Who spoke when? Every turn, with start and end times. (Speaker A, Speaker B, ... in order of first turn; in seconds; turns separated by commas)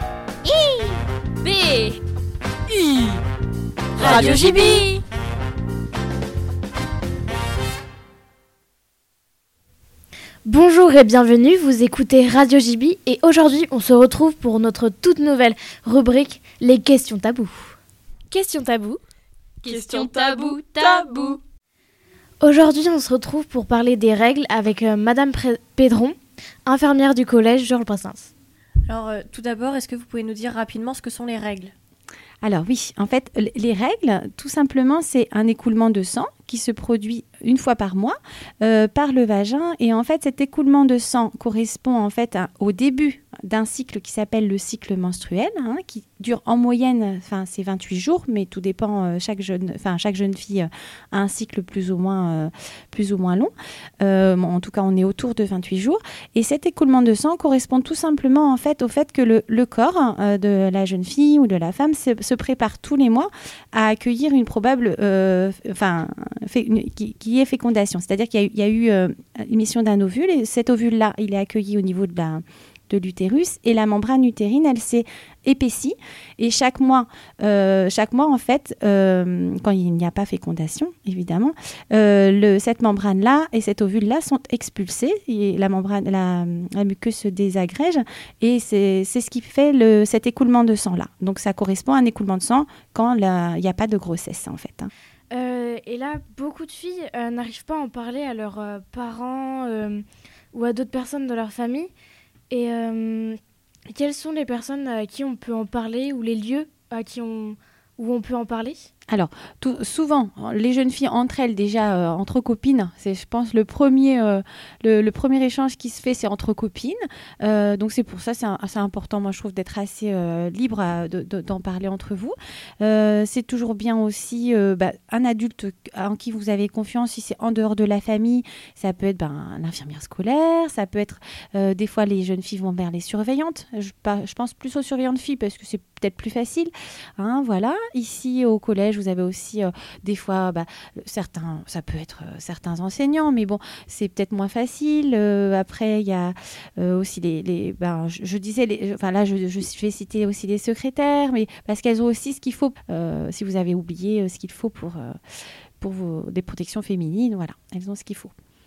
Speaker A: 0.5-2.0, Speaker A: 2.7-3.2, Speaker B: 4.0-4.9, Speaker A: 4.0-5.0, Speaker C: 10.4-17.8, Speaker C: 18.3-19.0, Speaker A: 19.6-21.4, Speaker C: 22.4-28.3, Speaker B: 28.8-31.7, Speaker D: 32.4-94.9, Speaker C: 95.3-101.9, Speaker C: 102.5-103.4, Speaker C: 103.9-108.9, Speaker D: 109.1-155.1, Speaker D: 155.8-158.3